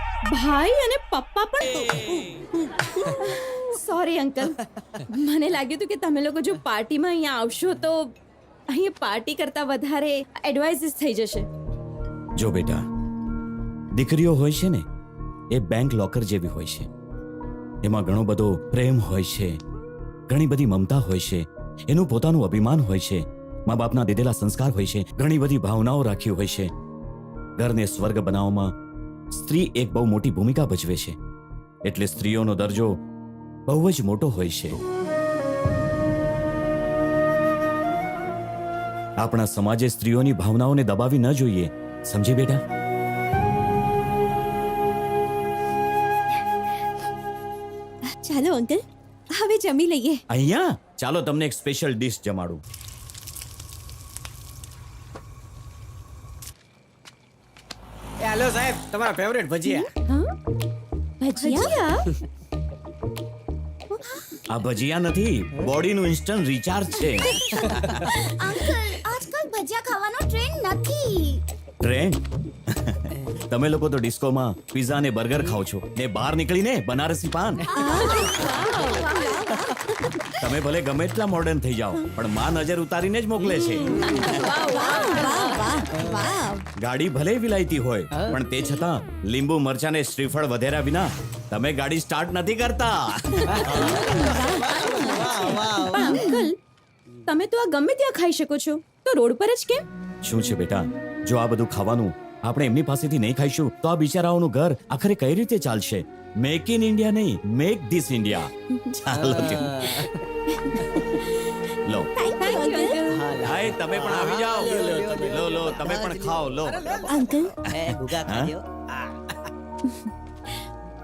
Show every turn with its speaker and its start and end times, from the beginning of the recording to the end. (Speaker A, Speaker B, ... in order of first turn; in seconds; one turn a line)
Speaker A: 0.3-2.0
Speaker A: 3.1-8.1
Speaker A: 8.7-11.5
Speaker B: 12.4-12.8
Speaker B: 13.9-14.8
Speaker B: 15.5-16.9
Speaker B: 17.8-19.6
Speaker B: 20.3-26.7
Speaker B: 27.6-28.7
Speaker B: 29.3-31.2
Speaker B: 31.8-33.0
Speaker B: 33.7-34.8
Speaker B: 39.2-42.6
Speaker C: 48.1-48.8
Speaker C: 49.3-50.2
Speaker B: 50.3-52.6
Speaker D: 58.2-59.9
Speaker A: 60.1-60.3
Speaker C: 61.3-61.7
Speaker A: 61.3-62.1
Speaker C: 63.9-64.3
Speaker B: 64.5-68.0
Speaker C: 67.2-67.7
Speaker D: 67.8-68.1
Speaker E: 68.0-71.4
Speaker B: 71.8-77.6
Speaker C: 77.8-80.2
Speaker A: 77.9-79.5
Speaker B: 80.3-83.9
Speaker C: 83.8-86.6
Speaker A: 83.9-85.8
Speaker B: 86.8-94.1
Speaker D: 93.6-96.1
Speaker A: 93.8-96.5
Speaker C: 93.9-96.5
Speaker A: 97.2-99.8
Speaker B: 100.2-108.5
Speaker C: 108.8-109.0
Speaker B: 109.0-110.1
Speaker D: 109.1-110.0
Speaker C: 110.5-111.5
Speaker B: 111.8-112.1
Speaker C: 112.2-113.0
Speaker A: 112.4-113.3
Speaker D: 113.1-118.6
Speaker B: 113.4-117.0
Speaker C: 117.1-117.5
Speaker B: 117.7-118.5